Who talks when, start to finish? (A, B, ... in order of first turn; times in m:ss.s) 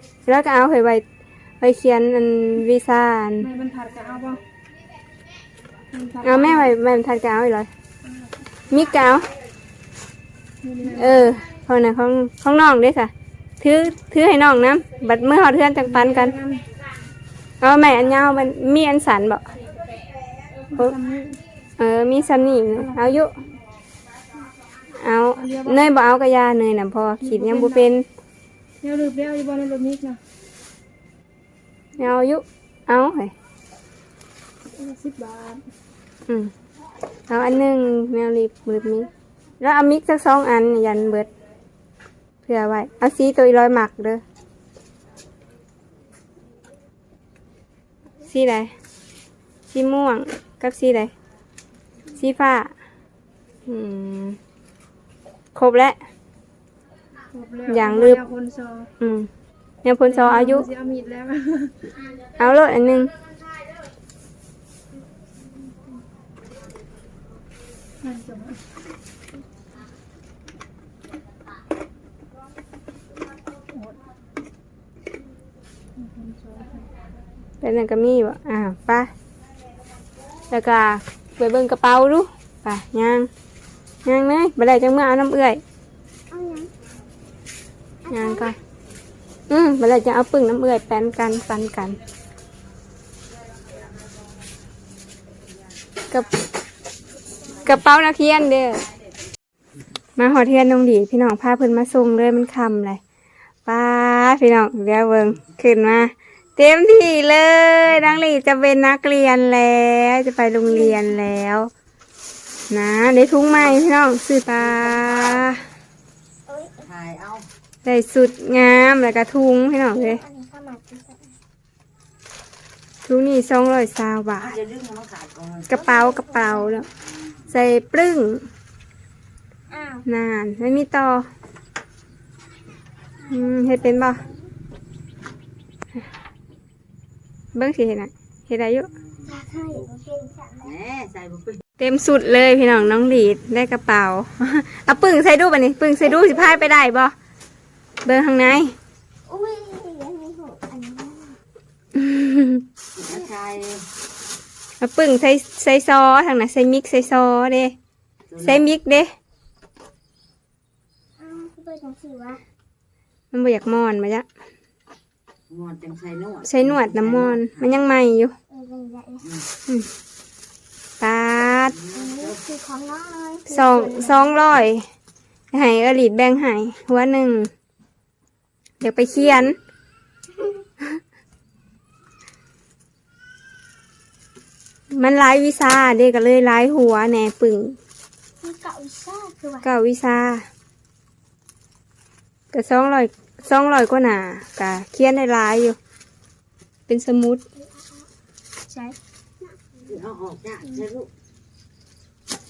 0:00.3-0:01.0 A
0:01.6-0:03.5 A
0:03.4-0:04.4 B
0:05.9-0:06.7 B
0:06.2-0:07.7 A
0:08.7-0:09.3 A
0:10.6-0:11.3 B
0:10.9-0:16.3 A
0:15.8-0:16.6 B
0:17.6-0:19.4 A
0:20.7-0:21.4 B
0:21.8-0:23.3 A
0:22.8-0:23.0 B
0:25.0-0:28.0 A
0:25.4-0:25.8 B
0:27.2-0:27.9 B
0:28.8-0:30.2 B
0:32.0-0:33.3 A
0:34.8-0:35.6 B
0:37.3-0:39.1 A
0:39.6-0:41.3 A
0:42.4-0:44.2 A
0:48.3-0:48.7 A
0:49.7-0:51.1 A
0:52.2-0:52.7 A
0:53.7-0:54.4 A
0:55.5-0:56.0 A
0:57.3-0:58.9 B
0:57.7-0:58.2 A
0:59.0-0:59.3 A
0:59.8-1:00.7 A
1:00.1-1:01.7 B
1:02.4-1:03.1 A
1:08.0-1:08.6 B
1:16.0-1:16.9 B
1:17.6-1:19.1 A
1:20.5-1:23.3 A
1:24.0-1:25.6 A
1:26.3-1:26.7 C
1:28.0-1:28.5 C
1:28.1-1:28.5 A
1:29.5-1:32.0 A
1:37.6-1:38.8 A
1:40.2-1:43.0 A
1:43.6-1:51.7 A
1:50.6-1:51.0 C
1:52.7-1:55.6 A
1:56.5-1:56.9 C
1:56.9-1:57.2 B
1:57.2-1:57.5 D
1:57.8-2:00.2 A
1:59.9-2:01.4 C
2:03.0-2:04.6 A
2:04.6-2:05.7 D
2:05.7-2:06.9 A
2:05.7-2:06.8 C
2:07.5-2:08.5 A
2:09.7-2:10.0 C
2:10.0-2:11.2 A
2:13.2-2:14.5 C
2:13.3-2:14.2 A
2:17.5-2:18.9 A
2:19.2-2:20.8 C
2:20.6-2:20.9 B
2:21.0-2:21.5 D
2:21.8-2:27.1 A
2:28.0-2:28.8 A
2:29.3-2:31.4 C
2:31.9-2:32.6 A
2:33.1-2:33.4 B
2:33.4-2:33.8 D
2:34.8-2:37.8 A
2:38.3-2:38.7 B
2:38.4-2:39.1 A
2:41.2-2:42.4 C
2:43.3-2:44.2 A
2:45.5-2:46.5 D
2:46.4-2:48.3 A
2:46.5-2:47.5 B
2:48.5-2:49.2 C
2:51.0-2:51.8 A
2:51.9-2:54.2 C
2:52.0-2:52.3 D
2:53.5-2:54.8 A
2:55.5-2:57.5 A
2:58.8-2:59.6 A
3:04.9-3:07.8 A
3:08.4-3:09.7 C
3:09.6-3:10.4 A
3:12.5-3:15.8 A
3:16.9-3:17.4 A
3:18.7-3:19.0 C
3:19.9-3:21.1 D